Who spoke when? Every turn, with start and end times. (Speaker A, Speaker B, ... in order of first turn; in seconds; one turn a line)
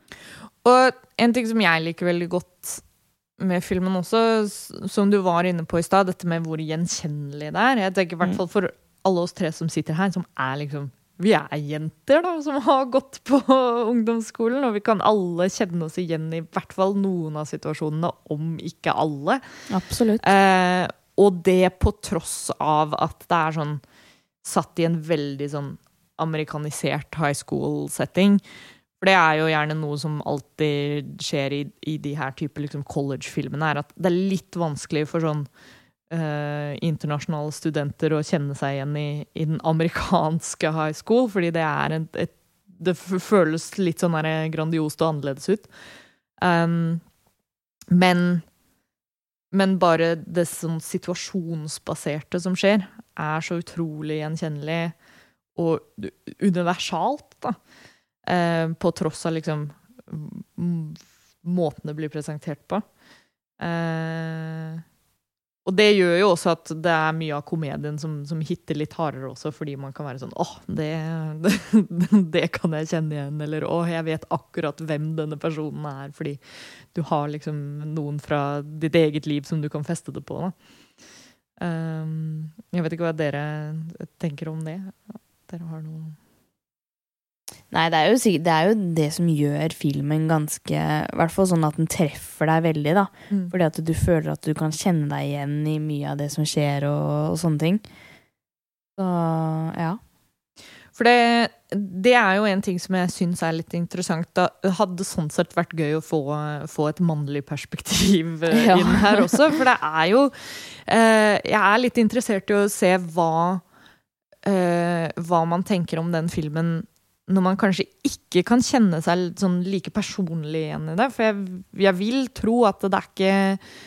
Speaker A: 0.6-2.8
Speaker A: 3.4-19.4
Speaker B: 19.7-20.3
Speaker A: 20.2-23.8
Speaker A: 24.4-28.4
Speaker A: 29.0-35.5
Speaker A: 36.1-45.7
Speaker A: 46.4-47.0
Speaker A: 47.9-48.4
Speaker A: 49.5-54.9
Speaker A: 55.5-57.5
Speaker A: 58.3-62.8
Speaker A: 63.6-64.8
Speaker A: 65.6-76.4
Speaker A: 76.9-80.5
Speaker A: 81.6-86.2
Speaker B: 87.7-97.8
Speaker B: 99.0-100.0
Speaker A: 101.0-113.6
Speaker B: 108.5-109.3
Speaker A: 114.4-123.6